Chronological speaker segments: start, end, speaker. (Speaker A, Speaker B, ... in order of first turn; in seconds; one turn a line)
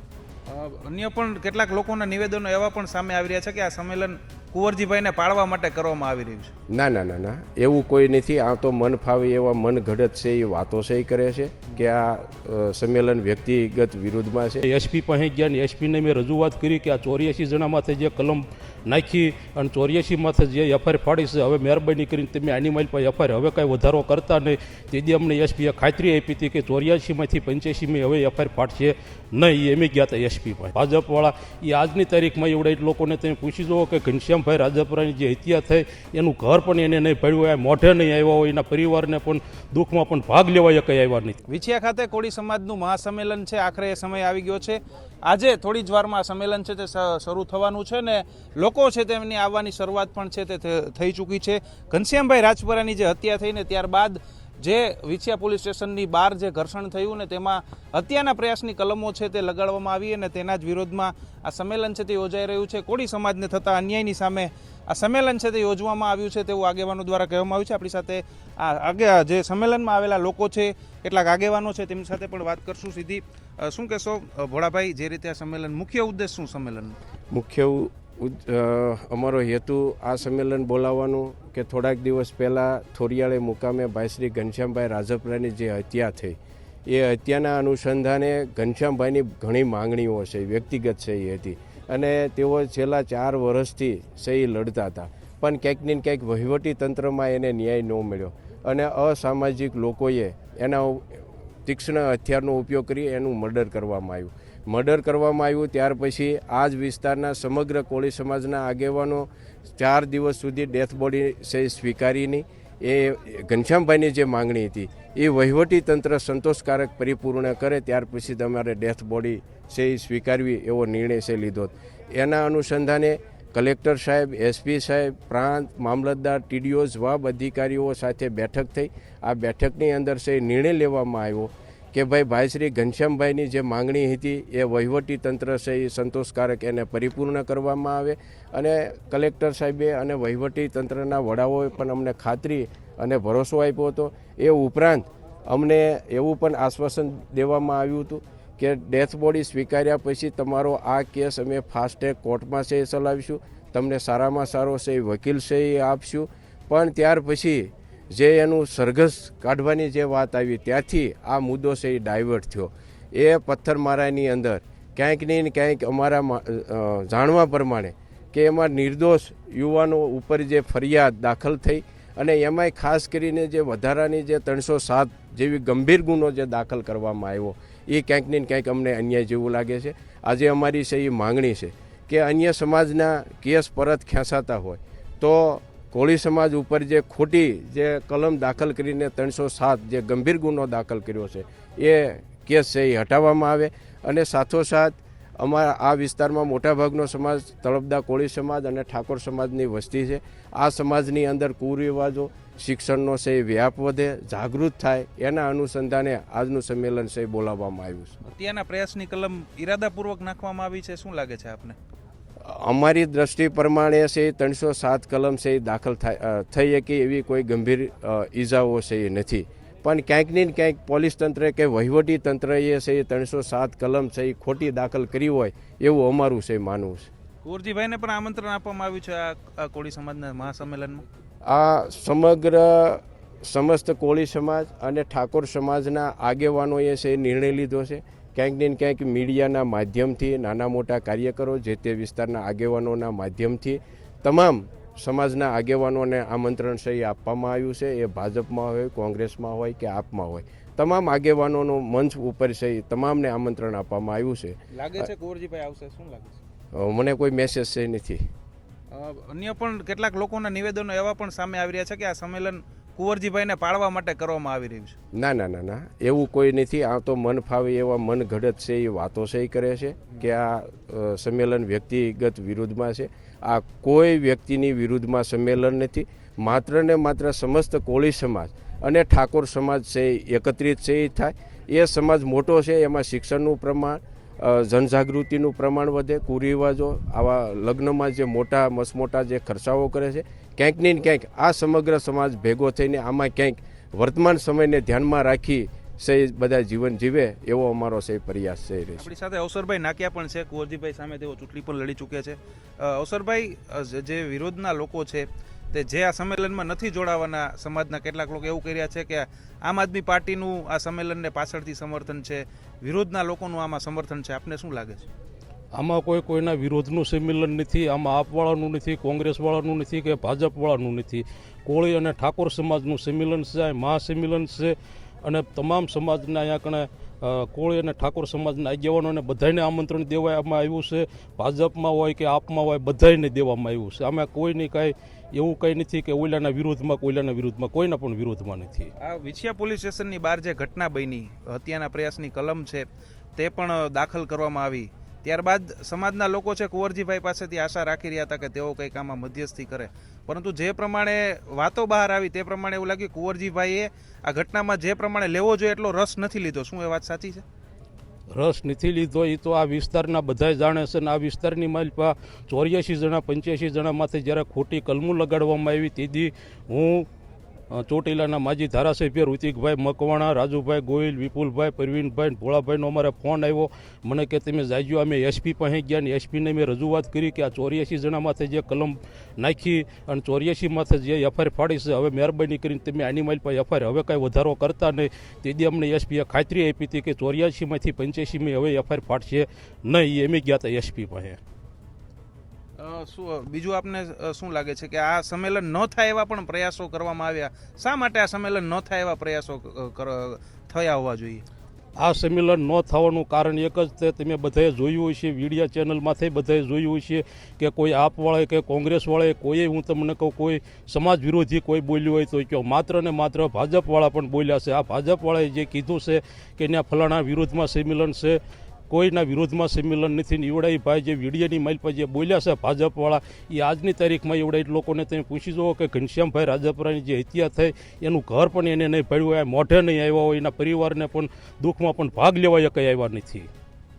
Speaker A: 0.5-6.5
Speaker B: 6.7-14.6
Speaker C: 14.6-41.4
Speaker A: 41.5-77.0
Speaker B: 77.3-208.2
Speaker A: 208.2-211.8
Speaker B: 212.4-227.1
Speaker A: 227.4-231.0
Speaker B: 231.4-255.1
Speaker A: 254.7-256.4
Speaker B: 256.7-258.2
Speaker A: 258.9-265.0
Speaker B: 265.1-299.1
Speaker A: 299.0-315.1
Speaker C: 315.8-338.9
Speaker A: 339.0-357.4
Speaker C: 358.3-367.1
Speaker C: 367.7-391.4
Speaker A: 392.8-401.4
Speaker C: 402.0-433.5